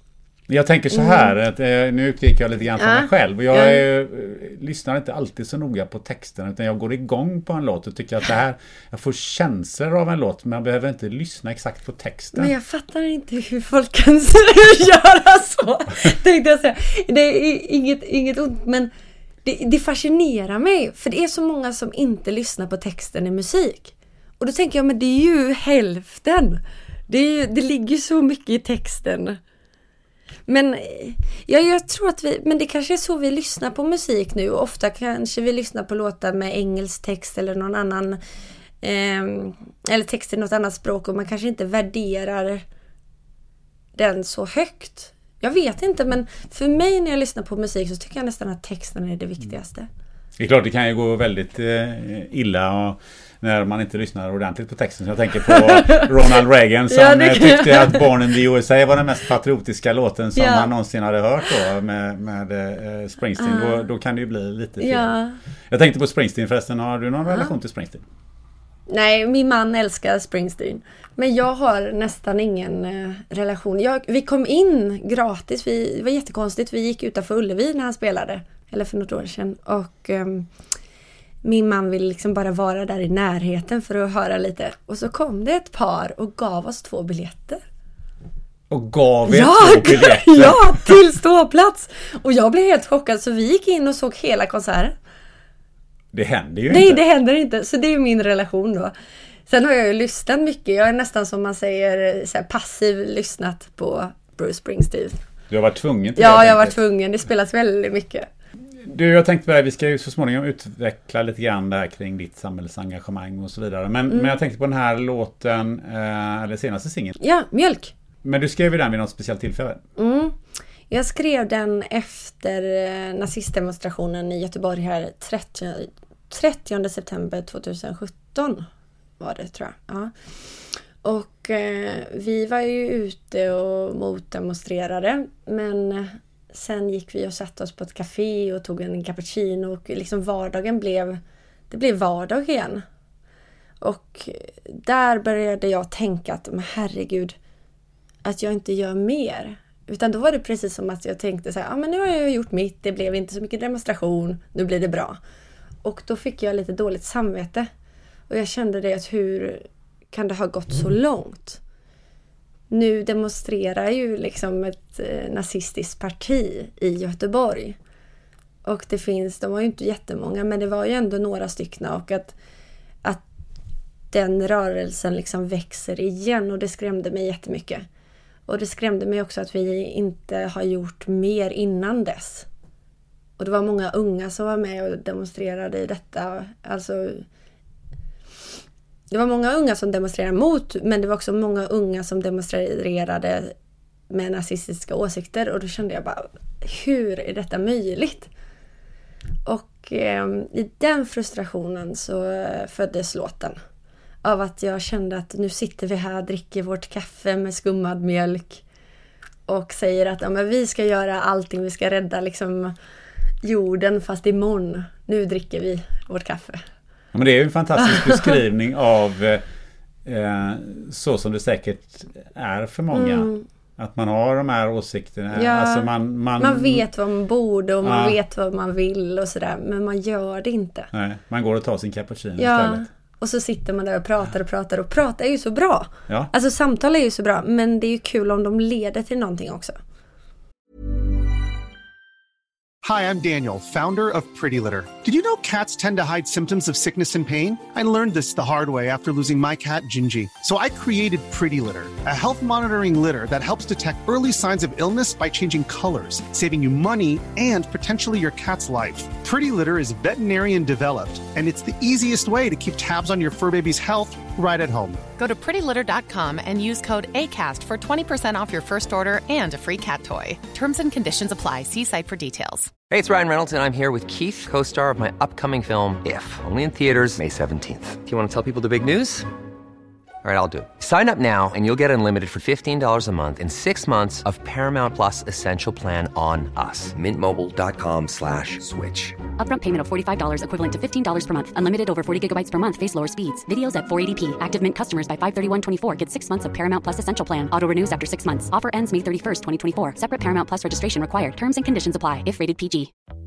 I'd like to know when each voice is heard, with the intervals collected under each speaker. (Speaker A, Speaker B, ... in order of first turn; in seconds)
Speaker A: 0.5-12.5, 50.4-65.1, 65.7-68.0, 88.7-90.9, 96.1-97.0, 105.5-106.8, 108.8-117.2, 118.2-119.8, 217.1-219.4, 220.0-226.8, 227.8-228.2, 230.9-232.9
Speaker B: 0.9-1.3, 2.8-3.8, 12.3-18.9, 19.4-29.4, 30.5-38.2, 38.8-42.6, 44.0-49.9, 55.5-56.4, 56.9-58.3, 60.4-60.7, 63.4-63.8, 64.8-65.4, 68.9-80.5, 81.4-87.6, 89.3-95.0, 96.7-98.9, 99.5-105.2, 106.2-108.3, 114.1-114.3, 117.2-117.9, 120.0-120.4, 120.9-128.7, 129.2-142.8, 143.8-147.3, 148.2-155.2, 155.8-157.7, 158.3-161.6, 162.7-167.8, 168.6-172.3, 174.1-177.8, 178.5-182.5, 183.4-187.2, 189.1-193.5, 194.1-198.3, 199.4-203.6, 204.2-208.6, 209.5-212.7, 213.4-216.7, 217.8-218.3, 222.9-223.4, 225.3-230.9, 232.4-239.8
Speaker C: 242.8-265.0
Speaker D: 265.2-272.7
Speaker E: 272.9-279.3, 280.2-289.2
Speaker F: 289.4-302.9